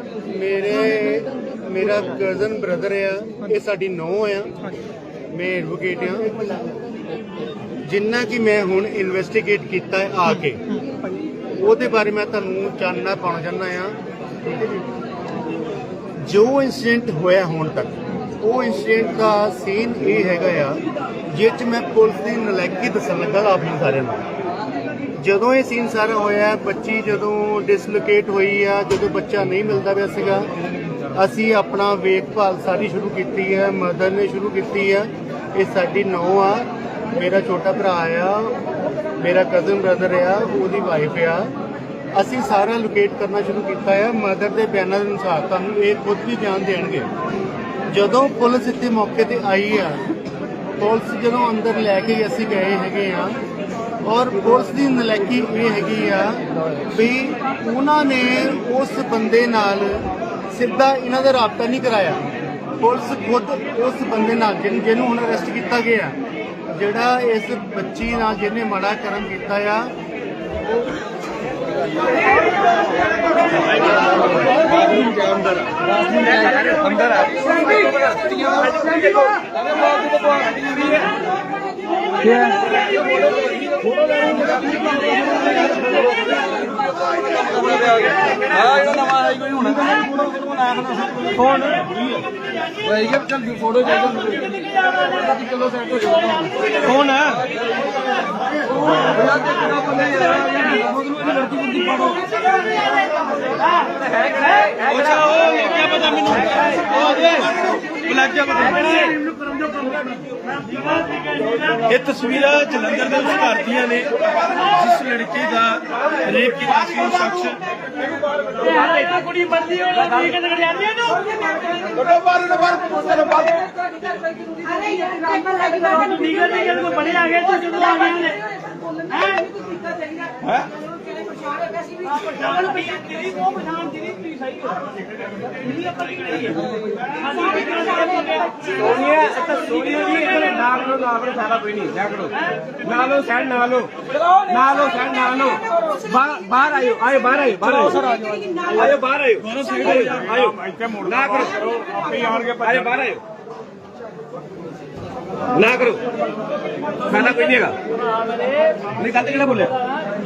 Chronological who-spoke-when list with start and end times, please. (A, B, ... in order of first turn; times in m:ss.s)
0:00.2-0:04.5 A
0:05.3-0:06.6 A
0:07.8-0:10.6 A
0:11.5-0:14.8 A
0:16.2-0:24.2 A
0:25.2-0:30.5 A
0:31.1-0:38.6 A
0:39.2-0:41.5 A
0:42.1-0:47.1 A
0:47.9-0:50.0 A
0:50.8-0:53.4 A
0:54.0-1:02.2 A
1:02.8-1:06.2 A
1:06.7-1:09.9 A
1:16.1-1:17.6 B
1:18.1-1:19.3 B
1:20.1-1:20.9 B
1:22.3-1:22.5 B
1:24.0-1:24.8 B
1:27.6-1:31.4 B
1:31.5-1:31.8 C
1:33.0-1:34.4 B
1:35.6-1:36.0 B
1:36.8-1:37.5 C
1:39.5-1:42.1 B
1:44.2-1:45.3 B
1:44.9-1:49.3 C
1:51.2-1:57.6 C
1:58.9-1:59.2 D
1:59.5-2:00.0 C
2:00.0-2:00.3 B
2:01.0-2:03.8 D
2:04.4-2:10.3 D
2:10.4-2:10.8 B
2:11.2-2:13.9 D
2:17.9-2:18.2 D
2:18.5-2:33.2 B
2:30.7-2:30.9 C
2:35.5-2:36.0 B
2:37.0-2:37.8 B
2:38.9-2:39.8 B